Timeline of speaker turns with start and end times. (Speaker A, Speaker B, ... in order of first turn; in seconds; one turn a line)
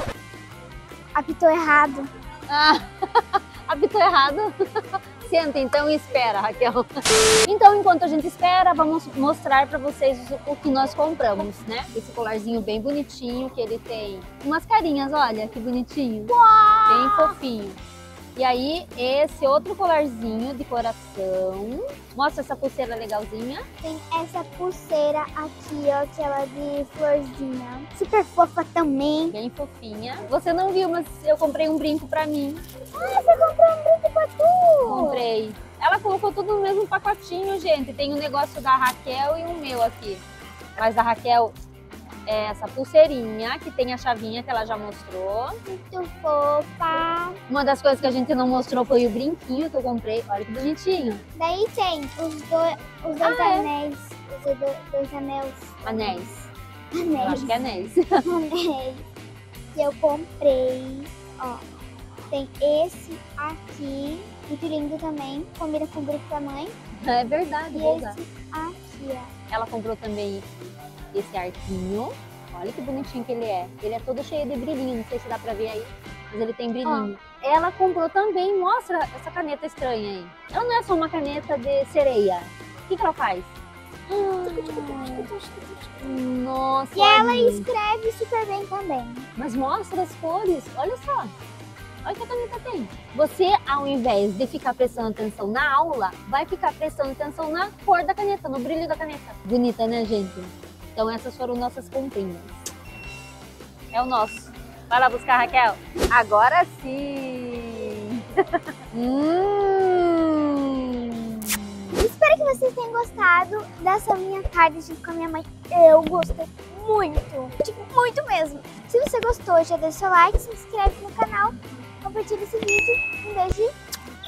Speaker A: 1.1-2.1
Speaker B: 2.5-4.5
Speaker B: 5.2-6.8
Speaker B: 7.4-16.3
Speaker A: 16.3-17.4
Speaker B: 16.9-17.8
Speaker B: 18.4-23.6
Speaker A: 23.8-29.3
Speaker B: 29.3-32.6
Speaker A: 32.9-35.2
Speaker B: 34.8-40.2
Speaker B: 40.8-41.5
Speaker B: 42.2-45.5
Speaker A: 45.6-47.4
Speaker B: 47.5-51.2
Speaker A: 51.3-56.0
Speaker B: 53.2-53.7
Speaker B: 55.8-56.5
Speaker A: 56.9-57.6
Speaker B: 57.2-58.0
Speaker A: 58.2-59.0
Speaker A: 59.7-61.6
Speaker A: 62.3-66.7
Speaker B: 67.0-68.2
Speaker A: 67.7-69.3
Speaker B: 69.5-70.5
Speaker B: 71.1-83.5
Speaker A: 76.8-77.1
Speaker A: 84.1-85.9
Speaker B: 84.4-85.3
Speaker B: 86.0-87.7
Speaker A: 86.9-89.3
Speaker B: 89.3-91.3
Speaker B: 92.0-102.5
Speaker B: 103.9-111.6
Speaker A: 111.9-123.7